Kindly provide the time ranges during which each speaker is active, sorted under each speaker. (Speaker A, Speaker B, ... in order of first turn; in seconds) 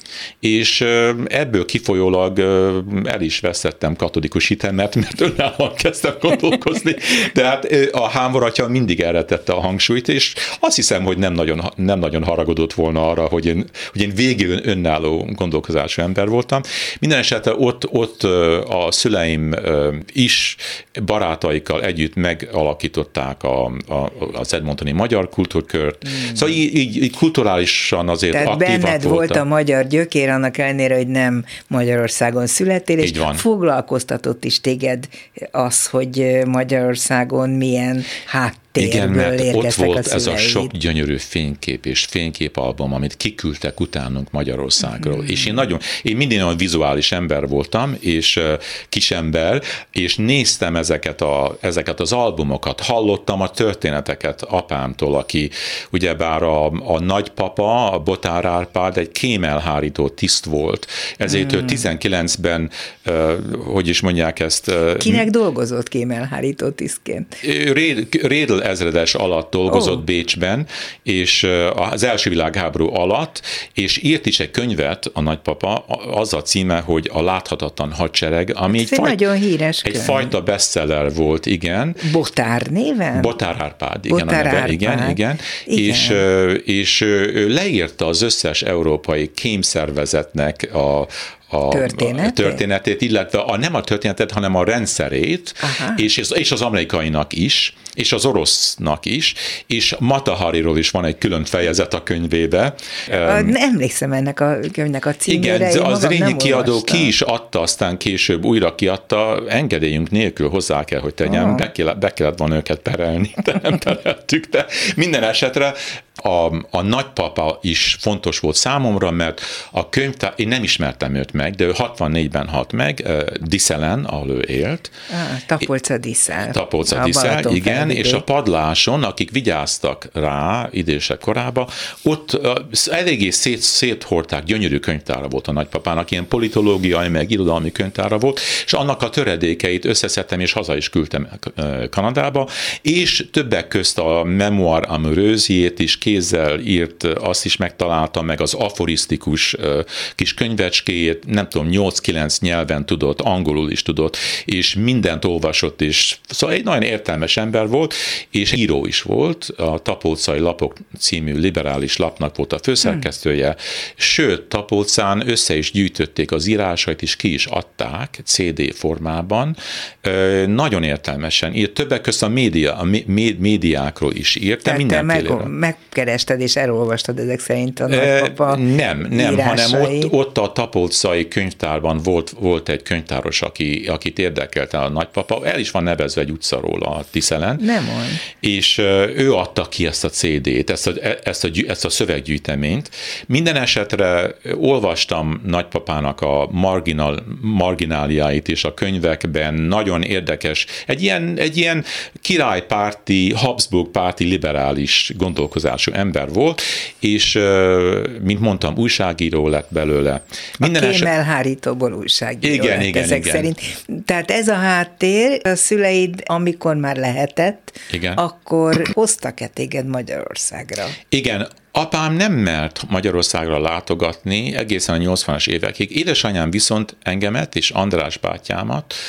Speaker A: 0.4-29.4, 33.0-33.4, 38.8-65.3, 67.4-79.2, 79.8-82.0, 83.1-103.5, 105.3-125.0, 126.4-175.5, 177.9-187.7, 188.2-211.1, 212.4-213.5, 217.9-218.2, 221.1-228.9
Speaker B: 26.1-26.4, 28.3-40.7, 45.0-45.5, 61.3-61.8, 65.0-67.3, 69.7-70.0, 78.7-80.3, 82.0-83.3, 84.1-86.2, 91.7-92.6, 95.6-96.0, 103.1-107.1, 111.2-111.6, 125.1-128.2, 174.6-180.1, 187.6-188.2, 210.6-221.0